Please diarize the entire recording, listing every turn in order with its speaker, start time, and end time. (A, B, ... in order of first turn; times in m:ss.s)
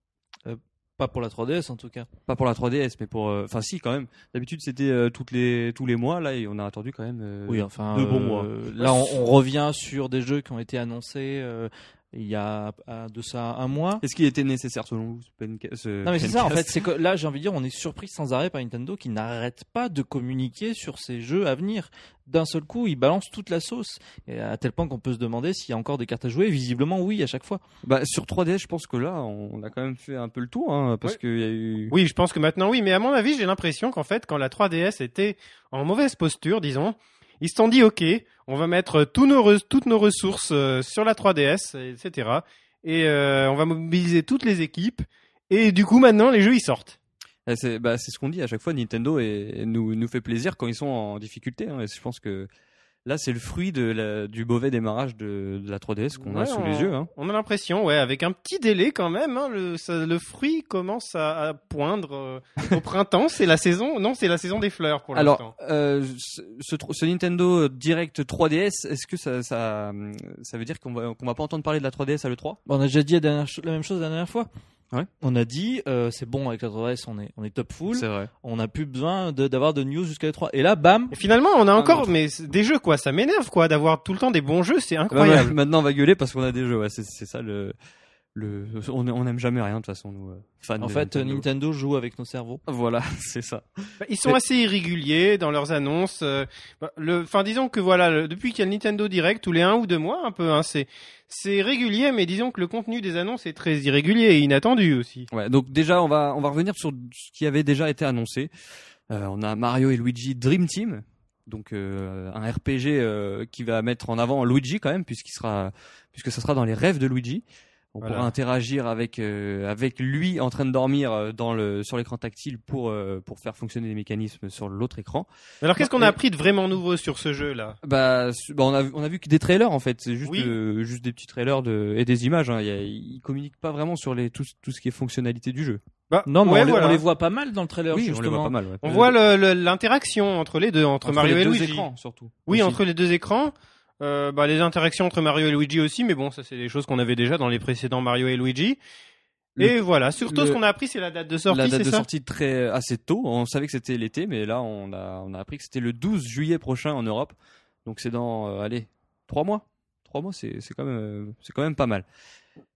0:00.5-0:02.1 A
0:02.3-0:09.2 B
0:07.5-0:14.0 A
0:14.0-0:16.8 B
0:16.0-0:27.6 A
0:27.8-0:32.0 B
0:31.9-0:47.0 C
0:47.5-0:52.5 B
0:53.1-0:57.1 B
0:56.2-1:05.5 C
1:05.1-1:12.6 B
1:12.7-1:14.5 A
1:15.2-1:21.2 A
1:17.9-1:18.3 B
1:21.1-1:25.6 C
1:25.1-1:27.8 B
1:28.4-1:31.4 B
1:30.8-1:32.6 A
1:32.7-1:34.4 B
1:34.0-1:45.3 C
1:45.3-1:48.5 B
1:49.1-1:57.4 B
1:58.0-2:06.1 B
1:58.0-1:58.3 C
2:05.6-2:07.8 C
2:07.8-2:15.8 B
2:10.2-2:10.5 C
2:16.1-2:17.0 C
2:16.3-2:18.5 A
2:17.9-2:19.1 B
2:18.8-2:21.9 C
2:21.0-2:22.8 B
2:22.5-2:28.8 C
2:29.6-2:30.6 B
2:29.6-2:32.1 C
2:31.5-2:42.0 B